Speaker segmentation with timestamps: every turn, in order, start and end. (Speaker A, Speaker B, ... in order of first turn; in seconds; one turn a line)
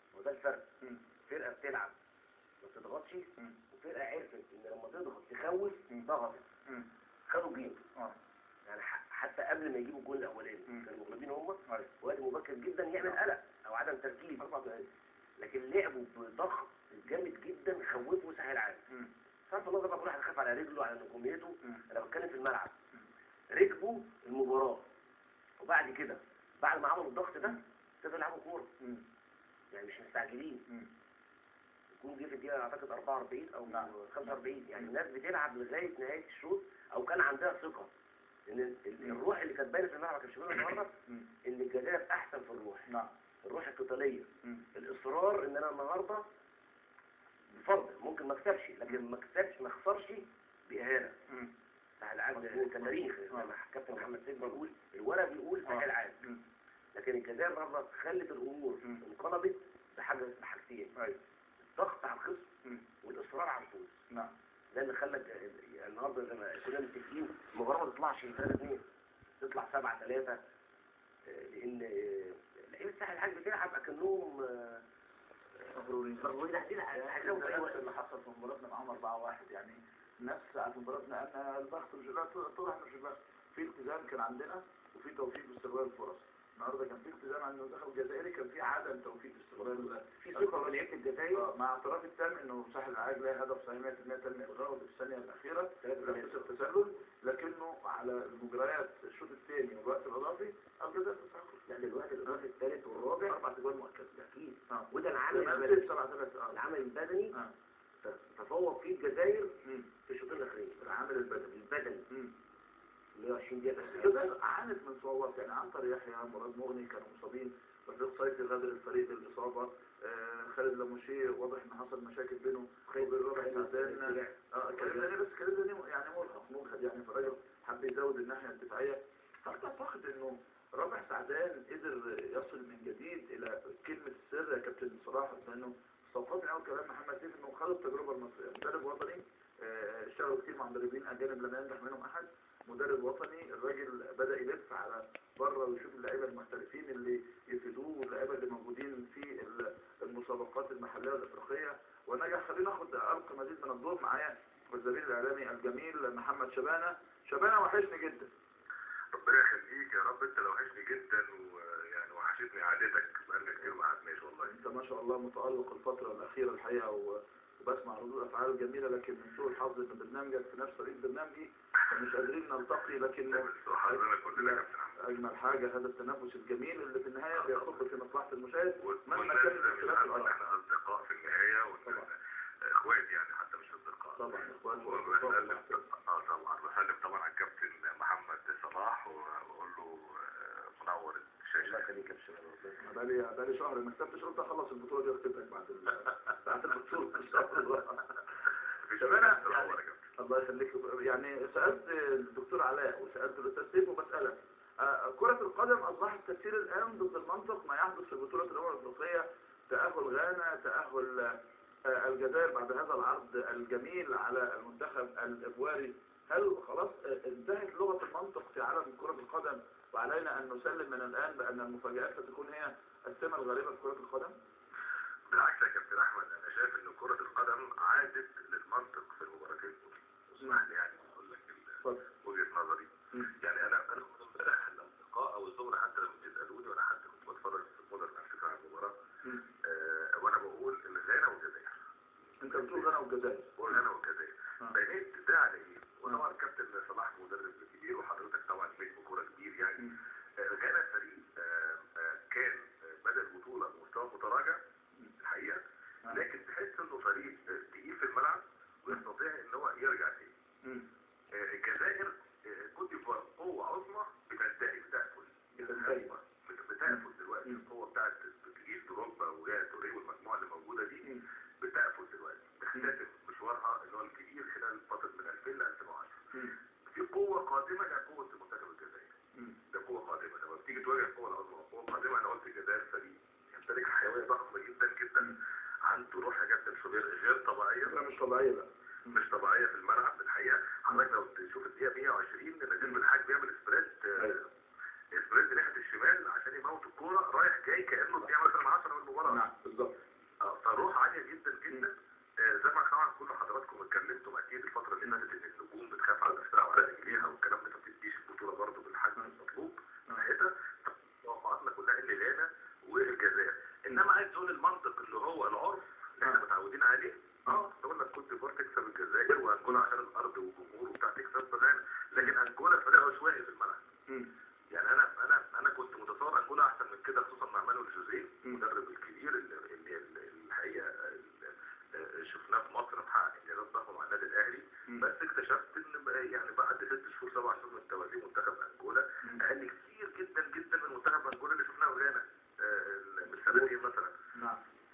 Speaker A: 0.1-0.6
Speaker A: 1.3-1.9
Speaker A: 2.6-6.5
Speaker A: 7.3-7.8
Speaker A: 8.7-14.9
Speaker A: 15.4-18.8
Speaker A: 19.5-22.7
Speaker A: 23.5-24.9
Speaker A: 25.6-28.7
Speaker A: 29.7-30.7
Speaker A: 31.9-37.9
Speaker B: 33.7-34.9
Speaker A: 38.5-40.9
Speaker A: 41.5-42.9
Speaker A: 43.4-46.2
Speaker A: 47.5-51.1
Speaker A: 52.0-56.2
Speaker B: 52.3-53.5
Speaker B: 55.7-56.4
Speaker A: 56.9-61.0
Speaker A: 61.6-62.5
Speaker A: 63.0-64.0
Speaker A: 64.7-68.8
Speaker A: 69.4-70.4
Speaker A: 71.3-74.8
Speaker B: 75.7-76.3
Speaker A: 76.2-77.9
Speaker B: 76.9-101.6
Speaker A: 89.7-91.5
Speaker A: 95.8-96.5
Speaker A: 101.7-103.4
Speaker B: 103.2-106.6
Speaker A: 104.2-106.0
Speaker A: 106.5-107.3
Speaker A: 108.0-109.5
Speaker A: 110.1-110.8
Speaker B: 110.8-112.3
Speaker A: 111.4-112.0
Speaker A: 113.2-114.3
Speaker B: 113.8-158.3
Speaker A: 122.9-125.1
Speaker C: 159.1-164.6
Speaker B: 164.4-180.4
Speaker C: 173.3-175.0
Speaker C: 177.3-177.8
Speaker C: 178.8-191.9
Speaker B: 184.2-185.8
Speaker A: 191.6-192.8
Speaker B: 192.8-198.2
Speaker C: 198.8-200.1
Speaker B: 199.0-211.4
Speaker B: 211.9-224.3
Speaker C: 225.3-238.9
Speaker C: 239.6-241.8
Speaker B: 242.4-243.8
Speaker C: 242.5-243.0
Speaker C: 243.6-254.6
Speaker C: 255.2-260.3
Speaker C: 261.3-276.2
Speaker B: 265.6-266.1
Speaker B: 266.9-267.6
Speaker C: 276.9-279.1
Speaker C: 279.7-288.0
Speaker B: 287.9-289.2
Speaker C: 289.1-294.5
Speaker C: 295.1-299.4
Speaker B: 299.3-300.0
Speaker C: 300.4-323.8
Speaker B: 307.1-307.4
Speaker C: 324.7-344.1
Speaker B: 343.5-343.7
Speaker B: 344.4-344.6